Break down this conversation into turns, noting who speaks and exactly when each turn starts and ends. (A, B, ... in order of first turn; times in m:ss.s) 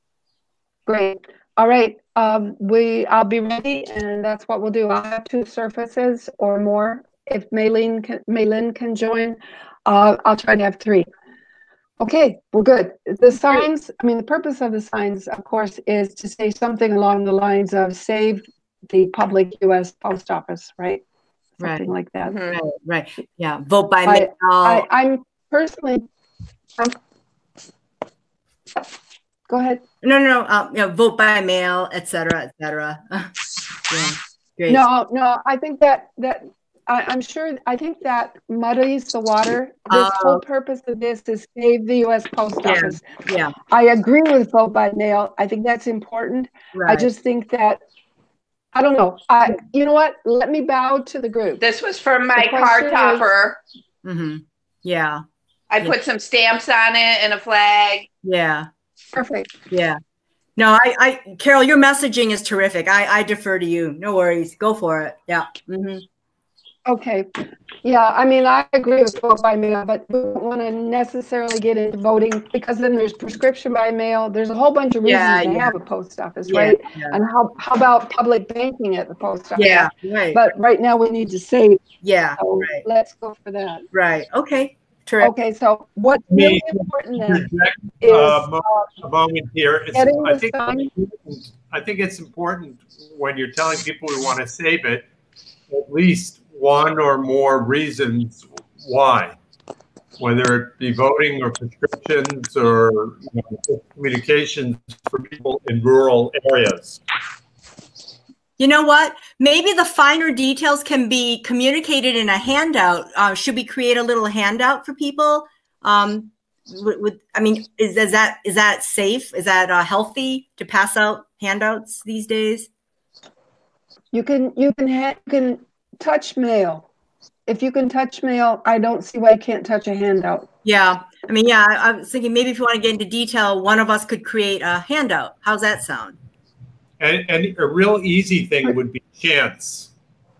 0:00.9-0:11.1 A
0:12.0-0:21.0 A
0:21.6-0:21.9 B
0:21.6-0:22.3 A
0:22.2-0:22.6 C
0:22.5-0:24.8 B
0:24.0-0:26.0 A
0:29.5-0:29.8 A
0:30.0-0:33.3 B
0:33.9-0:34.8 B
0:34.7-0:43.0 A
0:39.9-0:40.4 B
0:42.6-0:43.5 B
0:43.7-0:47.8 A
0:46.7-0:47.1 B
0:48.7-0:51.6 A
0:51.6-0:53.6 C
0:52.3-0:53.2 A
0:54.0-0:55.2 B
0:55.7-0:58.1 C
0:58.2-0:58.7 B
0:59.1-0:59.5 A
0:59.7-1:00.0 B
1:00.6-1:06.0 B
1:06.8-1:07.3 A
1:07.8-1:21.8 A
1:15.0-1:15.7 B
1:16.5-1:17.2 B
1:19.6-1:20.4 B
1:22.0-1:22.8 B
1:22.4-1:23.8 A
1:23.9-1:25.3 B
1:25.2-1:27.5 A
1:26.3-1:35.0 D
1:28.0-1:28.9 A
1:29.9-1:30.9 A
1:35.7-1:39.4 D
1:40.2-1:47.0 D
1:48.6-2:02.7 B
2:04.1-2:06.8 A
2:07.4-2:10.5 A
2:10.6-2:16.2 B
2:17.0-2:19.9 D